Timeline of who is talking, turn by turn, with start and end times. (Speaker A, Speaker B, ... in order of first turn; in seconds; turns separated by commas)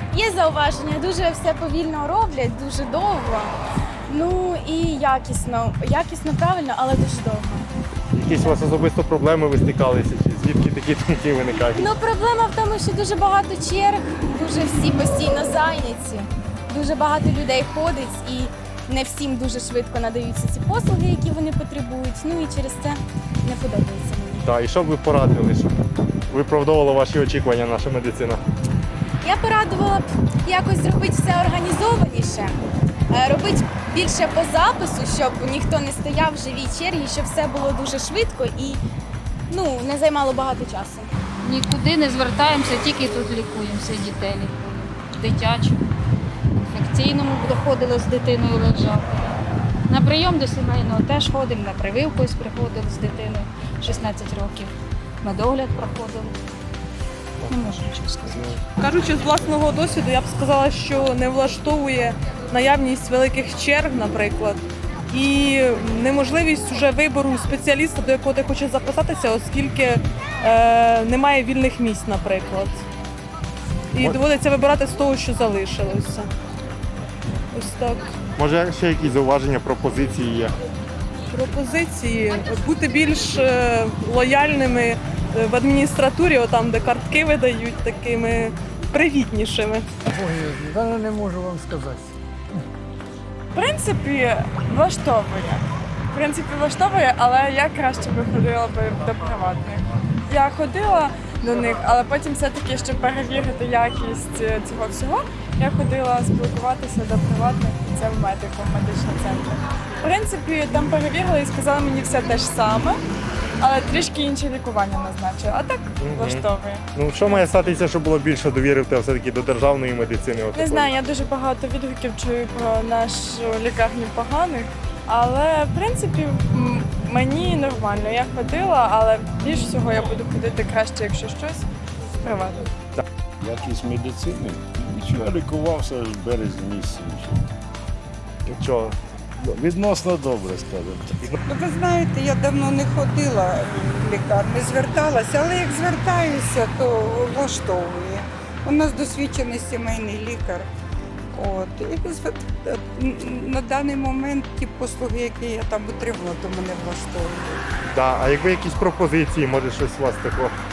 Speaker A: 0.1-3.5, Speaker A: 4.1-7.7, Speaker B: 8.1-11.9, Speaker A: 11.8-24.5, Speaker B: 24.4-25.7, Speaker B: 26.3-28.4, Speaker A: 29.2-32.5, Speaker A: 33.1-38.8, Speaker A: 39.5-41.1, Speaker C: 41.4-45.8, Speaker C: 46.7-49.3, Speaker C: 49.9-54.7, Speaker C: 55.2-56.3, Speaker C: 57.5-58.5, Speaker D: 58.8-72.8, Speaker D: 73.9-76.3, Speaker D: 77.5-78.1, Speaker B: 78.4-80.5, Speaker D: 81.3-89.9, Speaker E: 90.1-92.1, Speaker F: 93.5-113.0, Speaker F: 113.6-116.8, Speaker B: 116.0-120.9, Speaker F: 120.5-131.7, Speaker F: 132.2-132.7, Speaker G: 133.4-137.4, Speaker B: 138.5-139.0, Speaker G: 139.5-141.2, Speaker H: 141.4-150.7, Speaker H: 151.3-157.6, Speaker B: 157.9-160.6